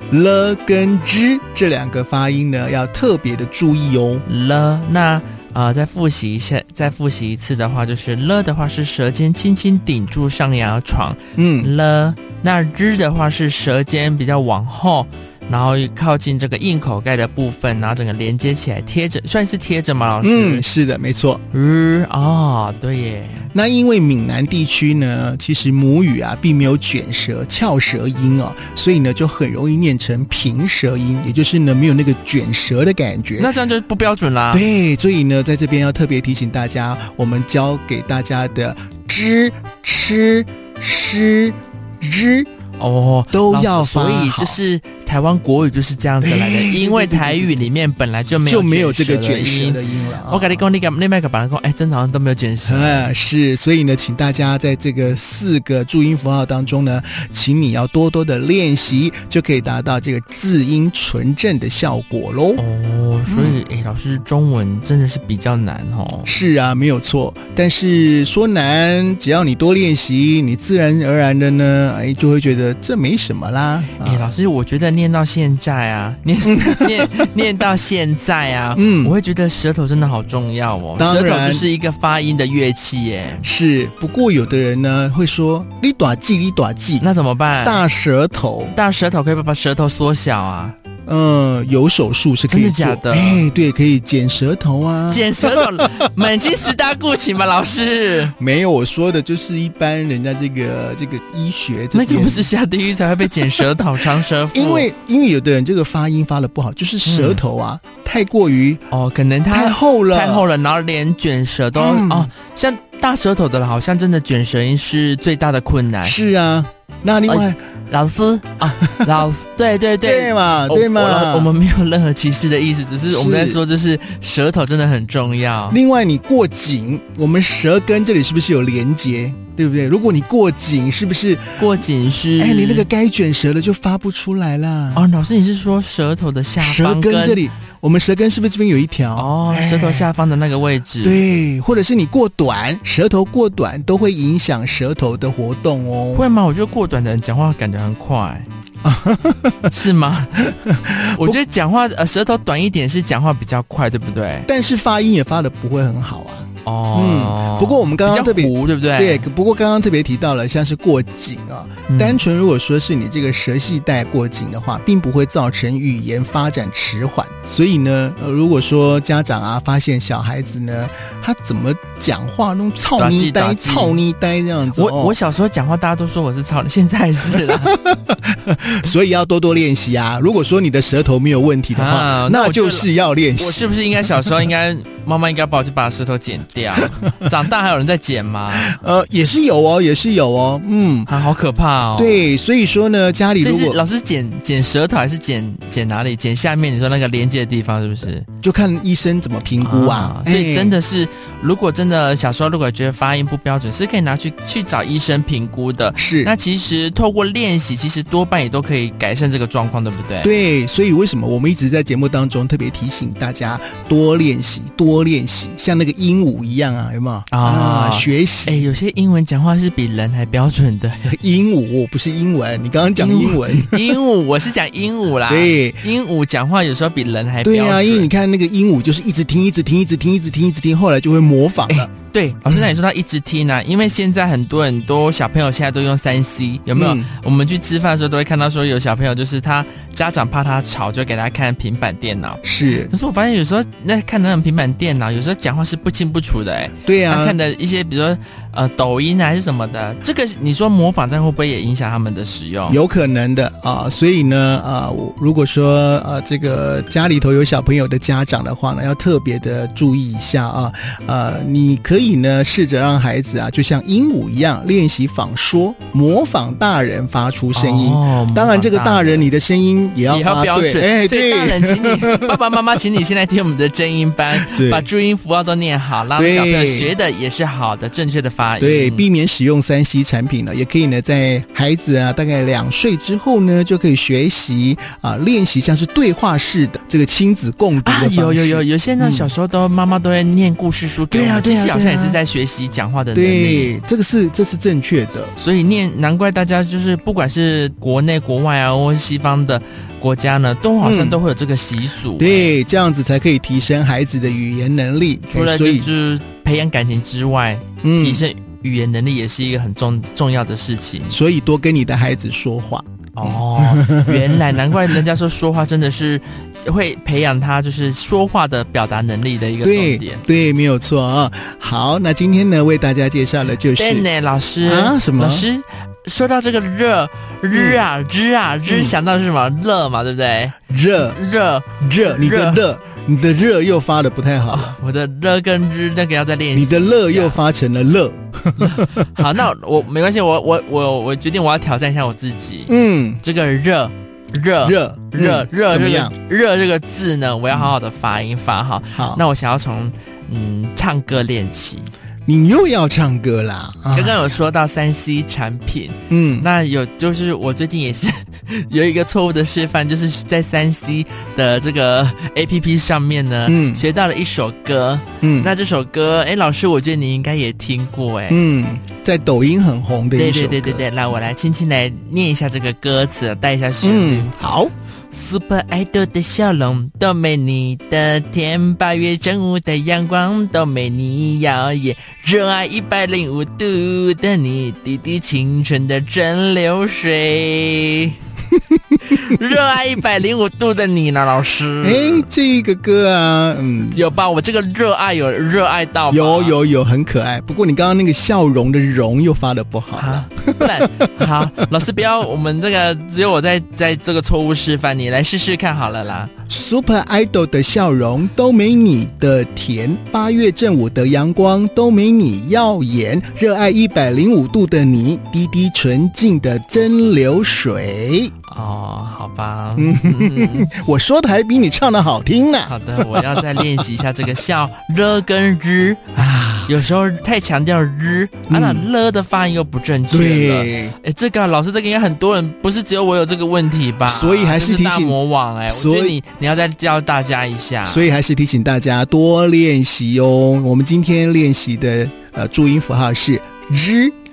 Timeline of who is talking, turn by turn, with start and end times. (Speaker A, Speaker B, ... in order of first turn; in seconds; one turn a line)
Speaker A: 0.1-4.2
Speaker B: 4.3-20.6
Speaker A: 11.4-11.7
Speaker A: 20.2-21.4
Speaker B: 21.5-23.5
Speaker A: 23.5-33.5
Speaker B: 33.4-34.6
Speaker A: 34.5-42.5
Speaker B: 42.8-53.1
Speaker A: 43.3-44.6
Speaker A: 46.2-47.6
Speaker A: 48.4-50.7
Speaker A: 52.6-62.6
Speaker B: 62.6-66.3
Speaker A: 63.3-63.6
Speaker A: 66.3-74.3
Speaker B: 74.0-83.4
Speaker A: 76.4-77.3
Speaker A: 78.8-79.2
Speaker A: 81.0-81.7
Speaker A: 83.4-87.0
Speaker B: 87.0-87.8
Speaker A: 87.6-88.8
Speaker B: 88.7-90.8
Speaker A: 91.1-96.1
Speaker B: 92.5-93.4
Speaker B: 95.1-98.3
Speaker A: 98.4-102.5
Speaker B: 101.9-104.9
Speaker A: 103.4-103.8
Speaker A: 104.5-108.8
Speaker B: 107.0-107.4
Speaker B: 108.9-116.2
Speaker A: 109.5-110.5
Speaker A: 111.8-112.3
Speaker A: 116.0-117.6
Speaker B: 117.3-125.8
Speaker A: 120.0-121.5
Speaker A: 123.1-123.6
Speaker A: 125.7-131.7
Speaker B: 131.6-132.9
Speaker A: 132.4-135.1
Speaker B: 134.9-137.4
Speaker A: 136.6-140.1
Speaker B: 139.2-141.2
Speaker A: 141.0-146.2
Speaker B: 146.1-148.5
Speaker A: 148.8-149.7
Speaker B: 149.7-154.5
Speaker A: 150.4-151.4
Speaker A: 154.5-175.2
Speaker B: 156.7-159.3
Speaker B: 161.9-162.2
Speaker B: 173.0-174.0
Speaker B: 174.8-177.8
Speaker A: 177.3-183.7
Speaker B: 181.7-188.8
Speaker A: 188.5-191.1
Speaker B: 191.1-192.2
Speaker A: 192.0-193.8
Speaker B: 193.4-198.3
Speaker A: 198.4-200.8
Speaker B: 199.6-210.3
Speaker A: 206.0-206.3
Speaker A: 210.2-218.6
Speaker B: 217.3-221.2
Speaker A: 221.1-224.0
Speaker B: 223.0-228.1
Speaker A: 225.3-225.8
Speaker A: 227.4-231.9
Speaker B: 231.7-252.8
Speaker A: 236.7-237.1
Speaker A: 242.4-242.9
Speaker A: 246.8-247.4
Speaker A: 252.7-272.4
Speaker B: 267.6-269.3
Speaker B: 270.1-279.1
Speaker A: 274.3-274.9
Speaker A: 276.2-276.9
Speaker A: 278.6-289.3
Speaker B: 287.8-293.7
Speaker A: 291.1-292.2
Speaker A: 293.1-295.3
Speaker B: 295.4-302.6
Speaker A: 300.8-301.2
Speaker A: 302.2-305.9
Speaker B: 305.3-311.2
Speaker A: 307.8-308.2
Speaker A: 311.1-315.0
Speaker B: 313.2-320.2
Speaker A: 319.6-324.1
Speaker B: 323.7-332.6
Speaker A: 324.6-325.5
Speaker A: 327.5-327.8
Speaker A: 328.7-329.0
Speaker A: 330.7-331.2
Speaker A: 331.8-334.8
Speaker B: 334.5-337.4
Speaker A: 336.5-339.3
Speaker B: 338.6-351.9
Speaker A: 342.7-343.2
Speaker A: 344.6-346.1
Speaker A: 348.9-349.2
Speaker A: 352.3-354.2
Speaker B: 353.9-368.4
Speaker A: 356.1-356.5
Speaker A: 363.5-363.8
Speaker A: 365.2-365.5
Speaker A: 368.3-370.9
Speaker B: 370.1-374.3
Speaker A: 373.8-374.7
Speaker B: 375.1-388.2
Speaker A: 388.7-389.0
Speaker B: 389.0-392.3
Speaker A: 391.8-394.0
Speaker B: 393.9-396.6
Speaker A: 396.1-401.5
Speaker B: 400.0-406.3
Speaker A: 406.5-418.3
Speaker B: 418.5-420.7
Speaker A: 419.8-423.9
Speaker B: 422.7-438.1
Speaker A: 426.2-426.7
Speaker A: 428.5-428.9
Speaker A: 430.1-431.0
Speaker A: 434.1-435.2
Speaker A: 435.7-436.2
Speaker A: 437.9-444.1